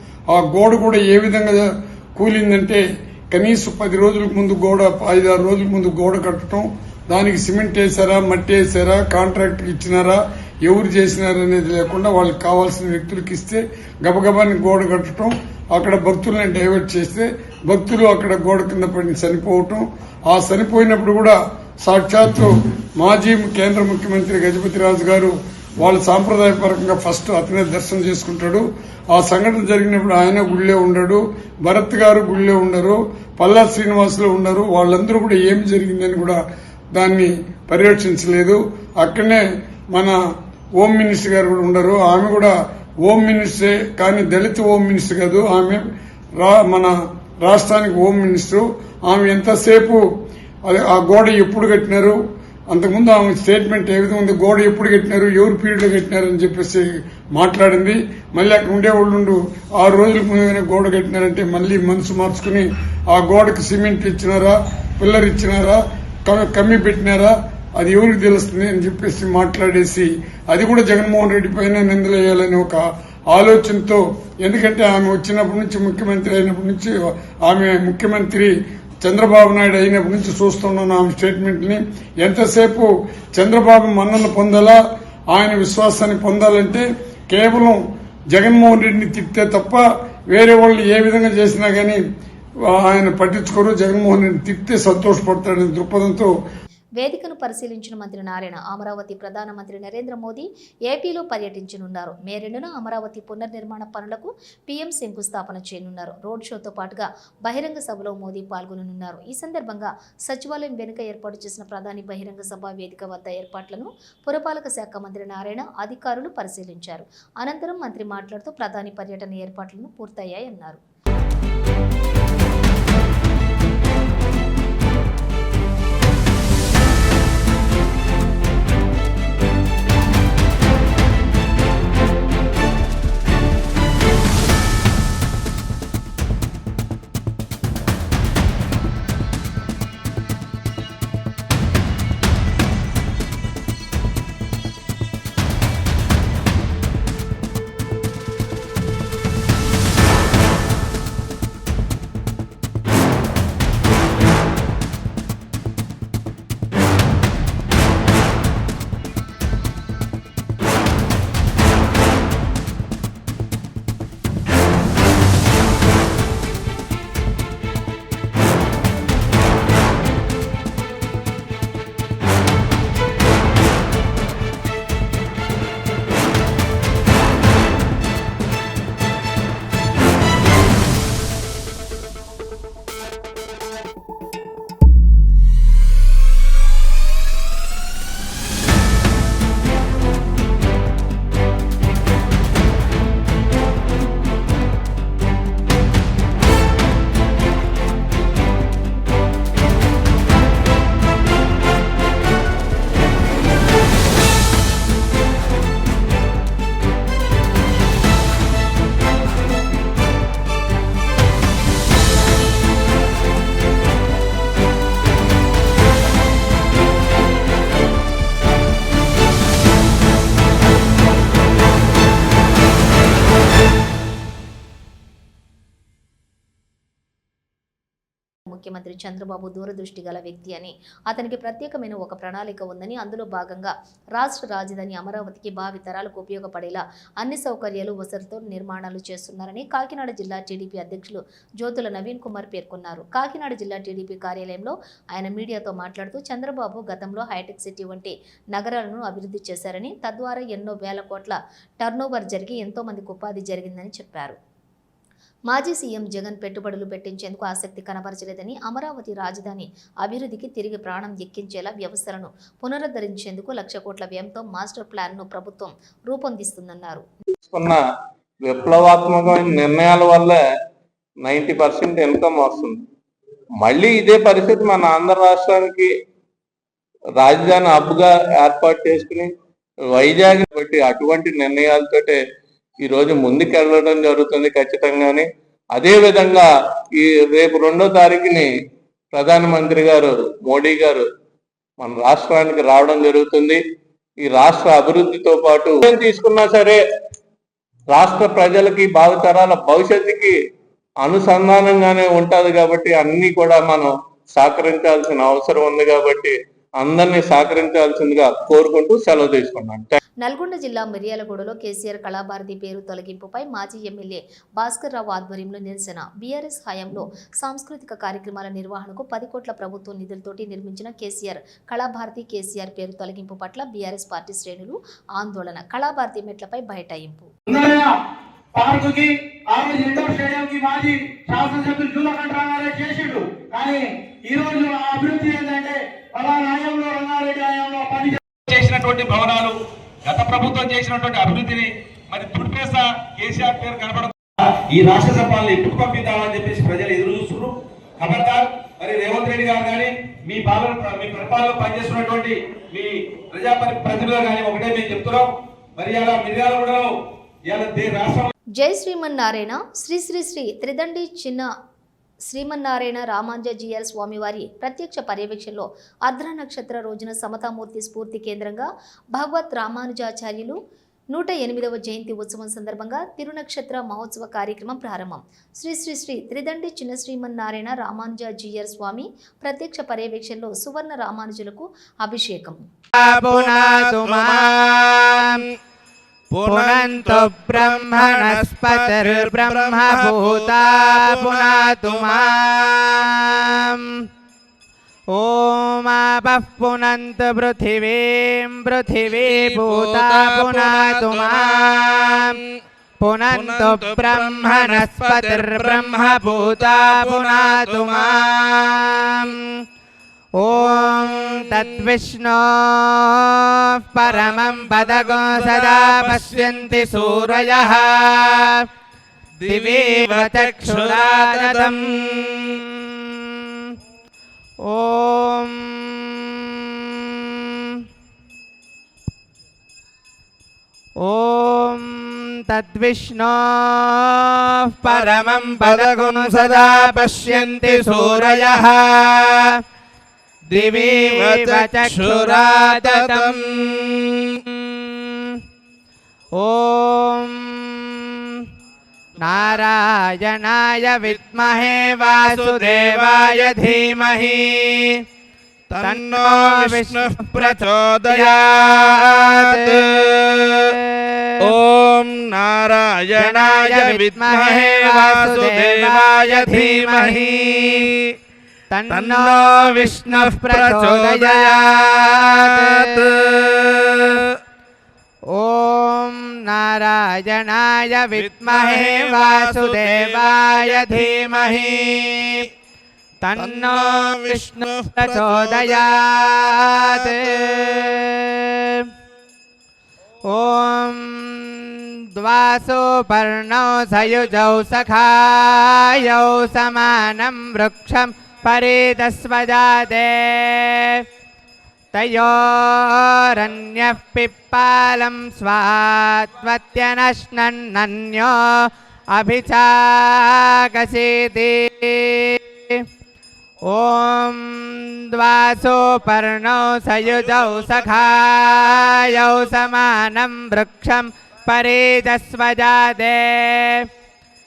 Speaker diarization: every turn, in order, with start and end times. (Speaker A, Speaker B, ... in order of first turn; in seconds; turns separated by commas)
Speaker A: 0.3-36.4, Speaker A: 36.9-40.1, Speaker A: 40.8-42.5, Speaker A: 43.0-45.8, Speaker A: 46.4-50.0, Speaker A: 50.7-52.1, Speaker A: 52.7-56.8, Speaker A: 57.4-76.9, Speaker A: 77.5-78.5, Speaker A: 79.0-84.8, Speaker A: 85.3-87.8, Speaker A: 88.3-92.0, Speaker A: 92.7-96.3, Speaker B: 97.0-120.8, Speaker B: 228.5-254.4, Speaker B: 255.5-267.1, Speaker C: 267.4-267.8, Speaker C: 268.4-270.4, Speaker C: 271.2-272.8, Speaker C: 273.6-275.9, Speaker C: 277.2-279.3, Speaker C: 279.9-282.2, Speaker C: 282.8-288.5, Speaker C: 289.1-291.0, Speaker C: 291.8-293.6, Speaker C: 294.2-296.8, Speaker C: 297.9-300.3, Speaker C: 301.0-309.9, Speaker B: 310.2-327.3, Speaker D: 327.5-327.9, Speaker D: 328.5-339.5, Speaker D: 340.1-341.6, Speaker D: 343.3-343.8, Speaker D: 344.8-347.2, Speaker B: 358.6-361.4, Speaker B: 362.3-370.6, Speaker B: 371.1-382.6, Speaker E: 382.9-385.4, Speaker F: 383.0-385.4, Speaker F: 386.3-392.7, Speaker E: 386.4-393.8, Speaker E: 395.1-402.4, Speaker F: 399.1-402.4, Speaker E: 403.0-409.4, Speaker F: 403.3-408.2, Speaker E: 410.4-418.6, Speaker F: 410.5-411.8, Speaker F: 414.0-417.0, Speaker F: 419.4-422.1, Speaker E: 419.4-422.6, Speaker E: 424.6-427.4, Speaker E: 431.0-434.3, Speaker E: 434.8-439.4, Speaker F: 434.9-438.8, Speaker E: 440.5-443.5, Speaker F: 440.6-444.2, Speaker E: 444.6-445.3, Speaker E: 446.4-448.3, Speaker E: 449.2-455.0, Speaker F: 449.2-449.5, Speaker F: 451.0-451.3, Speaker F: 452.1-453.6, Speaker F: 455.7-460.5, Speaker E: 455.8-461.5, Speaker F: 461.4-467.9, Speaker E: 463.1-467.9, Speaker E: 468.7-473.0, Speaker F: 468.9-474.2, Speaker E: 475.3-482.1, Speaker F: 478.1-482.1, Speaker E: 483.2-488.8, Speaker F: 483.4-487.7, Speaker E: 490.3-501.0, Speaker E: 501.9-512.9, Speaker E: 513.6-523.9, Speaker F: 517.1-518.0